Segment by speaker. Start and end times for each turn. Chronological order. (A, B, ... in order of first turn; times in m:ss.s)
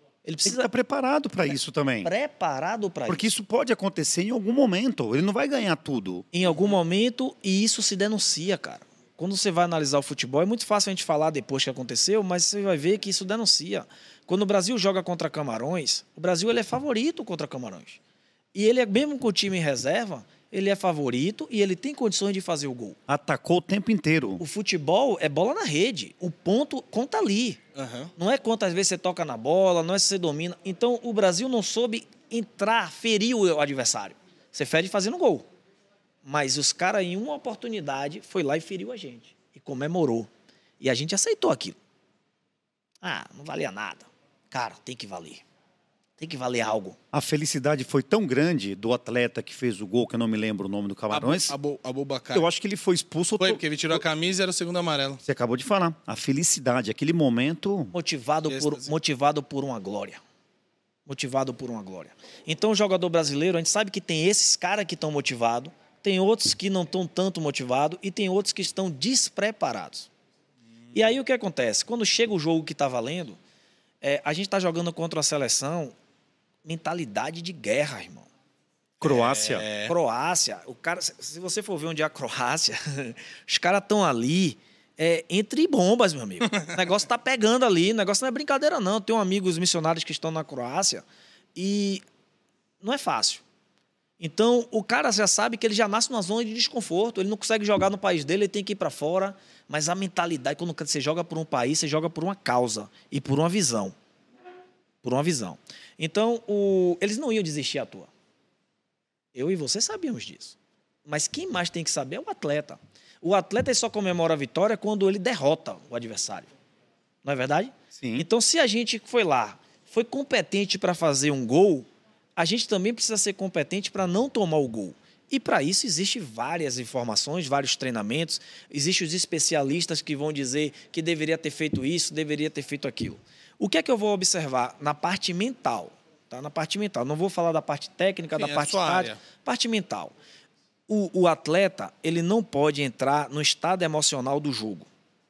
0:00.2-0:00.7 A
0:00.4-0:02.1 B
0:01.5-0:03.3 A
0:03.1-0:06.2 B
0:06.3-0:18.0 A
0:18.5-0:23.0 A
0:23.1-0:24.4 B
0:24.4-0:27.6 A
0:27.7-0:28.1 C
0:28.2-0:35.5 A
0:36.2-0:40.3 A
0:40.8-0:41.8 A
0:43.0-0:45.4 A
0:46.2-0:47.0 A
0:47.1-0:51.6 B
0:51.1-0:52.5 C
0:52.3-0:53.6 B
0:53.4-0:55.2 C
0:55.2-0:57.9 B
0:57.9-1:00.2 A
0:58.5-0:58.9 C
1:01.1-1:10.1 A
1:10.9-1:13.4 A
1:14.0-1:15.9 A
1:16.6-1:18.3 A
1:19.0-1:19.7 B
1:19.0-1:32.0 A
1:19.0-1:19.9 C
1:32.8-1:33.4 A
1:34.2-1:43.9 A
1:45.0-1:48.1 A
1:49.3-1:56.5 A
1:57.2-2:20.1 A
1:58.0-1:58.3 B
2:18.4-2:19.2 C
2:20.9-2:24.9 A